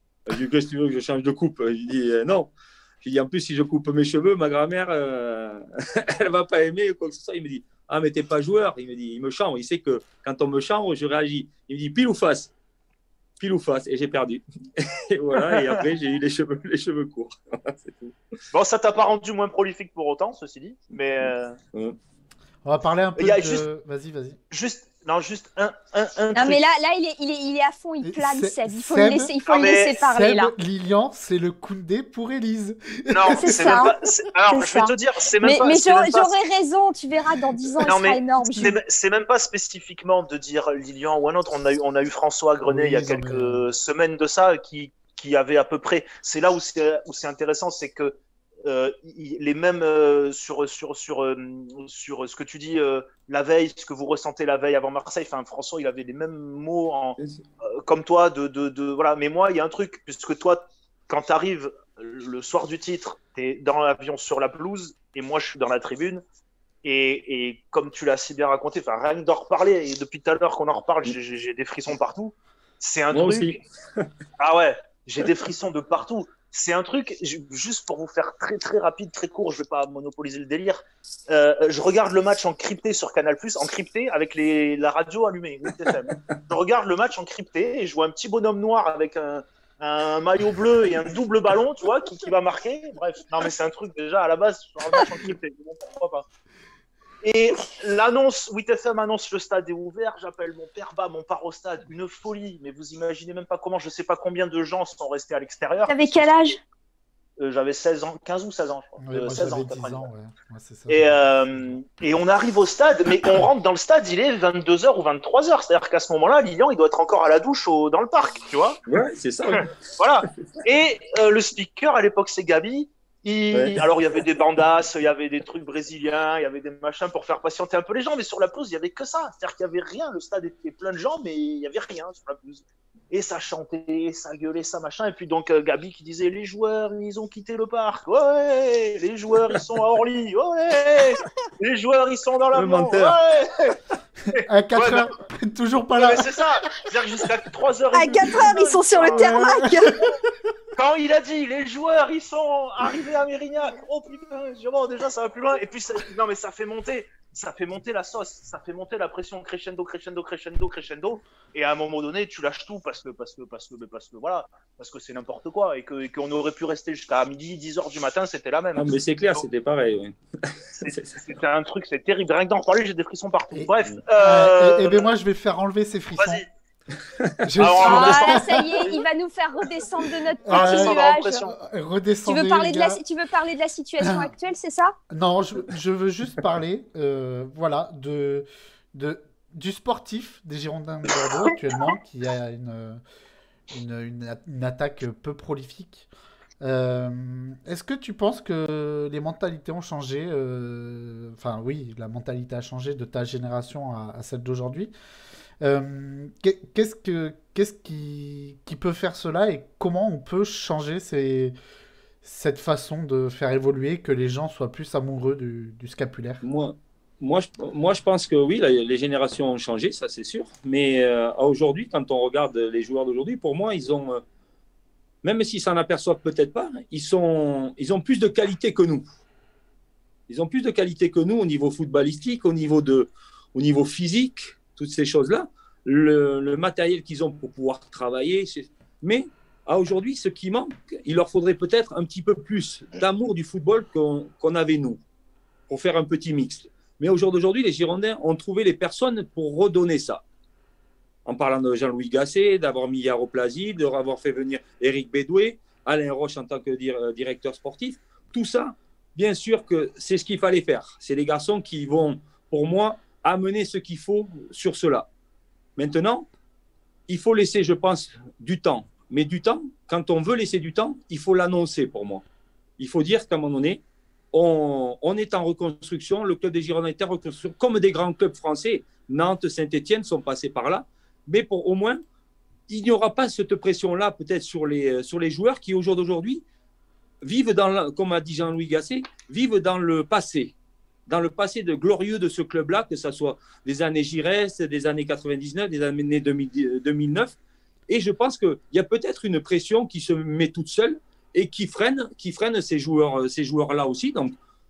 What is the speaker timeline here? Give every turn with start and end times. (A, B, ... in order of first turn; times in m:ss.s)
0:00.3-0:02.5 A
0:03.0-0:12.5 A
0:13.4-0:18.2 A
0:15.5-0:15.8 B
0:18.5-0:21.6 B
0:22.6-0:24.4 C
0:23.2-0:23.6 B
0:24.5-0:26.6 B
0:26.4-0:30.5 D
0:28.0-0:33.9 C
0:29.5-0:30.0 B
0:33.1-0:36.4 B
0:33.3-0:33.9 D
0:34.5-0:38.7 D
0:37.8-1:06.2 B
0:42.7-0:43.7 C
1:06.8-1:13.6 B
1:13.1-1:14.1 A
1:14.4-1:36.3 B
1:37.2-1:46.5 B
1:45.9-1:46.6 D
1:47.4-1:50.1 B
1:49.0-1:51.7 C
1:50.9-1:58.8 B
1:58.9-1:59.7 A
1:59.5-2:25.1 B
2:03.5-2:03.8 A
2:22.5-2:23.2 A
2:24.3-2:26.4 C
2:26.0-2:29.7 B
2:27.9-2:30.0 D
2:29.0-2:30.2 C
2:30.8-2:49.4 B
2:48.8-2:51.2 A
2:50.8-2:55.1 B
2:53.5-2:56.4 C
2:56.2-2:56.5 B
2:57.2-2:57.5 A
2:57.4-2:59.0 C
2:57.6-2:59.0 B
2:57.8-3:01.4 D
3:00.5-3:03.0 C
3:00.5-3:01.5 B
3:02.2-3:05.0 D
3:04.0-3:04.3 C
3:05.1-3:13.0 C
3:13.7-3:16.1 C
3:16.6-3:24.9 C
3:25.6-3:31.5 C
3:32.2-3:36.4 C
3:36.4-3:44.2 A
3:45.2-3:49.0 A
3:50.3-4:05.0 A
4:05.7-4:10.2 A
4:11.3-4:25.1 A
4:25.8-4:26.3 A
4:27.1-4:32.2 A
4:32.8-4:42.0 A
4:42.7-4:46.4 A
4:47.2-4:50.6 A
4:51.1-4:57.4 A
4:57.9-5:04.4 A